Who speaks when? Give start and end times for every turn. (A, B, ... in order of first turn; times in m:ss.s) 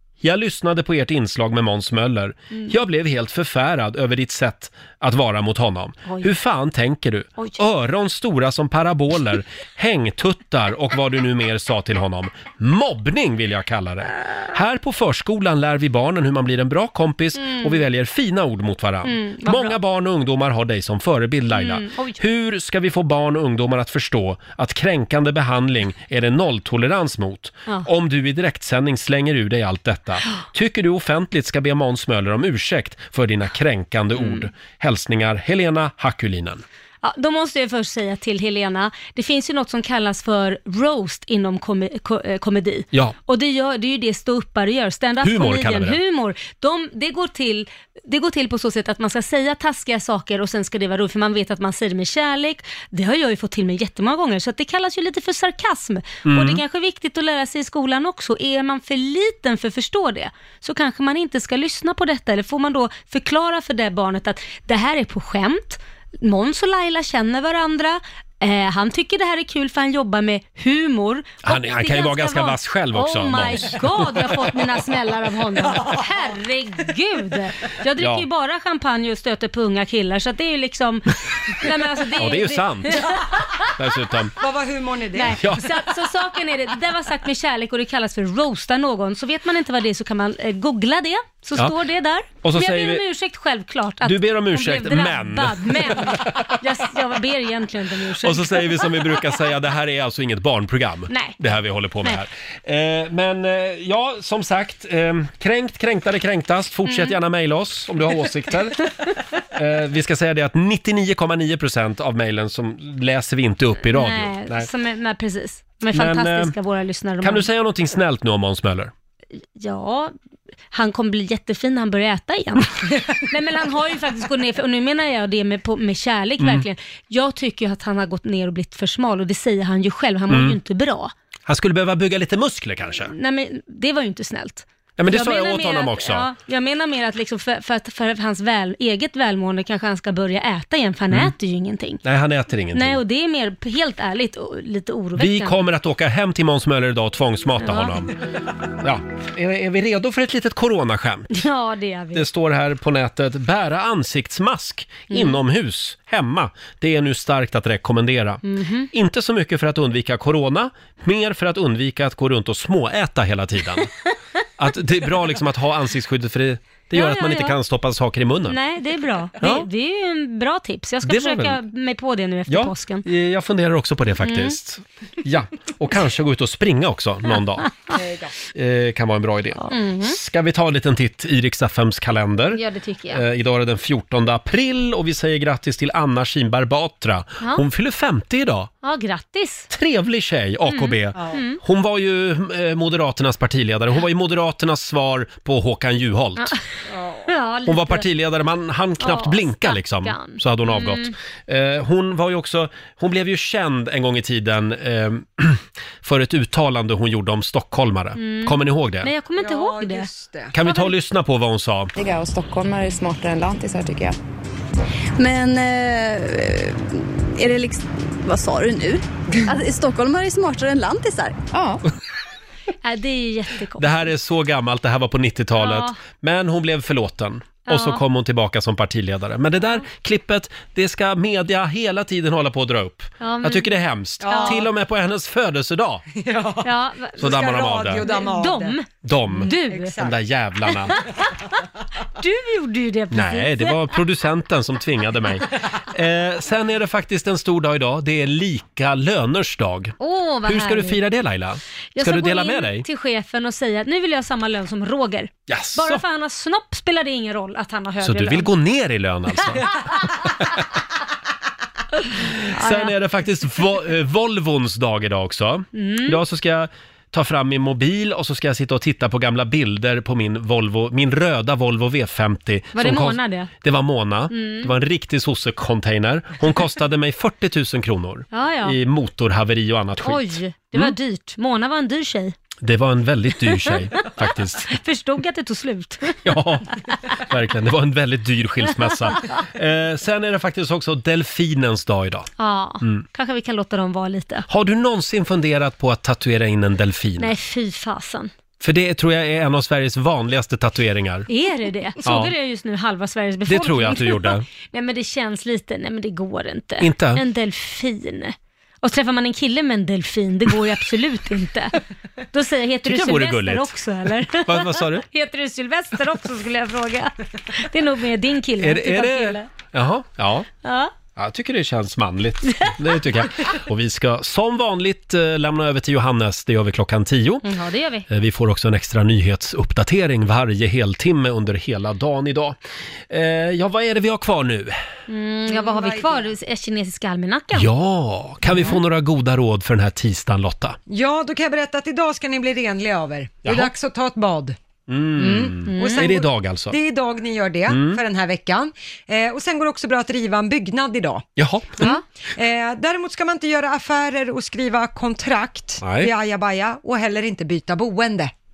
0:00.2-0:36.6 A
0:17.4-0:17.8 B
0:19.0-0:19.8 B
0:21.5-0:22.2 B
0:34.2-0:34.4 B
0:37.0-1:23.7 B
0:45.2-0:46.0 A
0:56.2-0:56.6 A
1:11.4-1:14.2 A
1:18.0-1:18.2 A
1:22.2-1:23.1 A
1:23.6-1:24.3 A
1:24.4-1:25.4 C
1:25.1-1:39.2 B
1:25.4-1:25.7 A
1:32.4-1:33.0 A
1:34.0-1:36.6 A
1:38.2-1:48.9 A
1:41.1-1:41.4 B
1:46.8-1:47.1 B
1:49.5-1:54.7 A
1:53.9-1:57.5 B
1:55.9-1:56.5 A
1:57.2-1:58.9 A
1:59.6-2:00.1 B
2:00.7-2:11.1 B
2:06.4-2:06.6 A
2:10.3-2:10.6 A
2:11.5-2:13.1 A
2:13.1-2:22.0 B
2:15.0-2:16.3 A
2:22.0-2:23.0 A
2:22.7-2:25.6 B
2:25.2-2:28.2 A
2:27.6-2:27.9 B
2:28.7-2:31.4 A
2:31.3-2:32.2 B
2:32.1-2:43.9 A
2:35.1-2:35.4 B
2:38.4-2:38.9 B
2:44.6-2:48.6 A
2:46.9-2:47.6 B
2:48.5-2:53.0 B
2:49.4-2:49.7 A
2:51.0-2:51.6 A
2:52.5-2:57.7 A
2:54.2-2:54.6 B
2:57.9-2:58.3 C
2:58.5-3:02.6 A
2:59.6-3:00.2 B
3:02.5-3:03.2 B
3:03.1-3:08.7 A
3:08.8-3:09.7 B
3:09.7-3:16.5 A
3:10.6-3:11.6 B
3:11.1-3:11.4 C
3:16.9-3:17.3 C
3:17.3-3:18.1 B
3:17.6-3:29.1 A
3:19.0-3:21.1 B
3:28.2-3:30.1 B
3:29.4-3:30.6 C
3:30.5-3:31.9 A
3:30.6-3:30.9 B
3:32.0-3:34.2 D
3:35.2-3:41.8 D
3:42.8-3:44.0 B
3:43.8-3:56.0 A
3:45.6-3:46.0 B
3:47.7-3:48.0 B
3:53.2-3:53.7 B
3:54.2-3:54.7 C
3:54.3-3:54.6 B
3:56.1-3:58.8 C
3:56.6-3:57.4 B
3:57.2-3:58.1 A
3:58.0-4:00.0 B
3:59.0-4:01.0 A
3:59.4-4:00.2 C
4:00.9-4:01.5 B
4:02.1-4:04.0 B
4:03.1-4:09.9 A
4:10.0-4:11.0 B
4:10.4-4:12.8 A
4:11.9-4:18.5 B
4:15.5-4:16.0 A
4:18.0-4:20.6 A
4:19.4-4:20.1 B
4:22.1-4:40.9 A
4:22.5-4:22.9 B
4:25.7-4:26.2 B
4:32.7-4:33.5 B
4:34.3-4:34.7 B
4:38.3-4:38.8 B
4:40.0-4:42.3 B
4:42.6-4:44.7 A
4:43.6-4:46.2 B
4:46.2-4:52.3 A
4:52.4-4:54.4 B
4:54.5-4:57.3 A
4:57.2-4:58.3 B
4:58.6-5:01.3 A
5:01.3-5:11.8 B
5:02.0-5:02.3 A
5:03.5-5:04.4 A
5:06.8-5:07.2 A
5:12.3-5:19.5 B
5:12.8-5:13.7 A
5:14.3-5:15.0 A
5:18.6-5:20.5 A
5:20.6-5:20.9 B
5:21.2-5:27.4 A
5:22.5-5:23.5 B
5:27.4-5:28.1 B
5:28.1-5:32.6 A
5:33.1-5:34.8 A
5:35.1-5:37.7 B
5:35.5-5:36.3 C
5:37.5-5:40.8 A
5:40.9-5:44.6 C
5:43.4-5:43.7 A
5:44.9-5:46.8 A
5:45.2-5:51.2 C
5:45.3-5:46.1 B
5:47.7-5:48.0 A
5:51.4-5:51.9 A
5:51.9-5:58.3 C
5:55.8-5:56.1 A